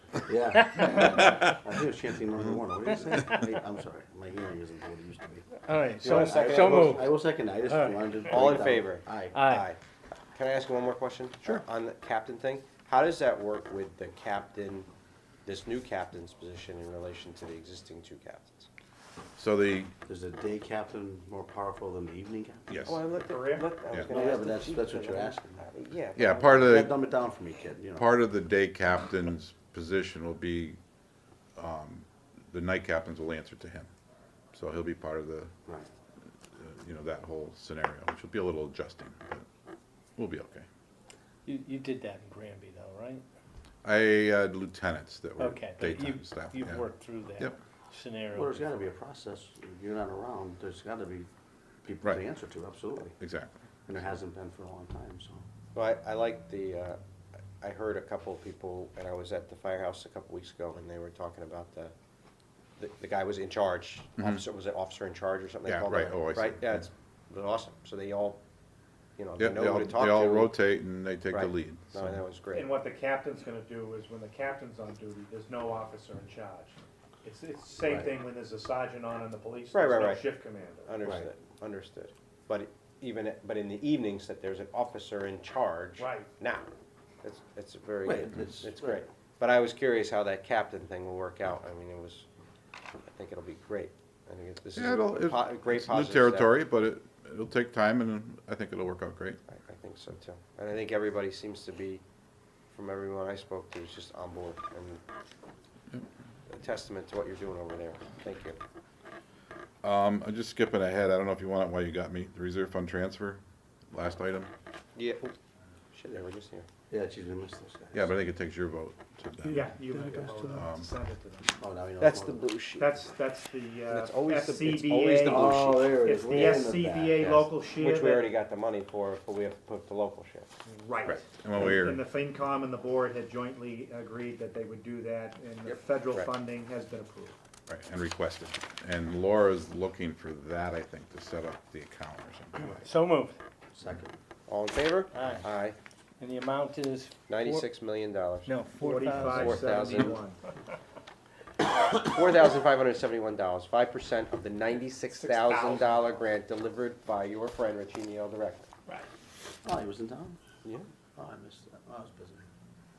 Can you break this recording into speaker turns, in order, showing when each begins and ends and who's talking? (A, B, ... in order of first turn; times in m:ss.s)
0:00.3-0:05.5 A
0:00.9-0:01.5 B
0:05.6-0:07.1 C
0:06.0-0:07.1 D
0:06.1-0:09.4 A
0:07.6-0:08.2 C
0:08.3-0:09.8 D
0:09.3-0:09.7 C
0:10.4-0:14.9 D
0:15.4-0:18.7 D
0:19.4-0:19.9 B
0:20.1-0:22.7 A
0:22.7-0:23.0 B
0:22.8-0:26.9 D
0:23.1-0:23.7 E
0:24.1-0:25.7 A
0:26.2-0:26.9 B
0:26.3-0:28.1 A
0:28.0-0:30.8 B
0:31.6-0:33.9 B
0:34.5-0:35.5 B
0:36.6-0:39.4 B
0:40.2-0:40.7 B
0:41.5-0:43.2 C
0:43.8-0:46.9 B
0:45.4-0:48.9 C
0:48.3-0:51.3 A
0:51.8-0:53.1 A
0:53.2-0:53.5 B
0:53.9-0:55.4 A
0:55.7-0:57.0 D
0:57.6-1:01.9 D
1:02.8-1:08.4 D
1:05.7-1:06.9 B
1:09.2-1:10.5 D
1:09.4-1:12.2 B
1:11.3-1:12.7 D
1:12.5-1:20.9 E
1:17.8-1:18.1 A
1:19.7-1:20.3 D
1:20.9-1:26.7 D
1:21.0-1:21.3 A
1:26.0-1:26.3 E
1:27.2-1:32.3 D
1:28.0-1:29.0 A
1:33.1-1:36.5 D
1:34.8-1:39.4 B
1:39.5-1:42.0 D
1:42.7-1:45.0 D
1:46.5-1:48.6 D
1:49.8-1:54.5 B
1:55.0-1:55.3 D
1:55.9-1:56.7 D
1:56.9-1:58.1 A
1:57.9-1:59.8 B
1:59.4-2:01.5 E
2:00.4-2:00.9 B
2:01.6-2:02.4 A
2:02.0-2:03.0 D
2:02.8-2:08.3 E
2:03.9-2:10.5 D
2:05.3-2:07.3 A
2:10.6-2:17.4 E
2:11.1-2:12.0 B
2:15.7-2:16.3 D
2:17.7-2:22.8 B
2:22.8-2:23.4 C
2:23.7-2:24.2 A
2:24.5-2:25.8 D
2:25.1-2:25.5 C
2:26.2-2:27.7 C
2:27.3-2:28.5 D
2:28.4-2:30.0 C
2:28.8-2:30.4 E
2:29.1-2:30.2 D
2:32.0-2:38.7 D
2:35.1-2:36.2 E
2:39.6-2:40.4 A
2:41.2-2:42.5 A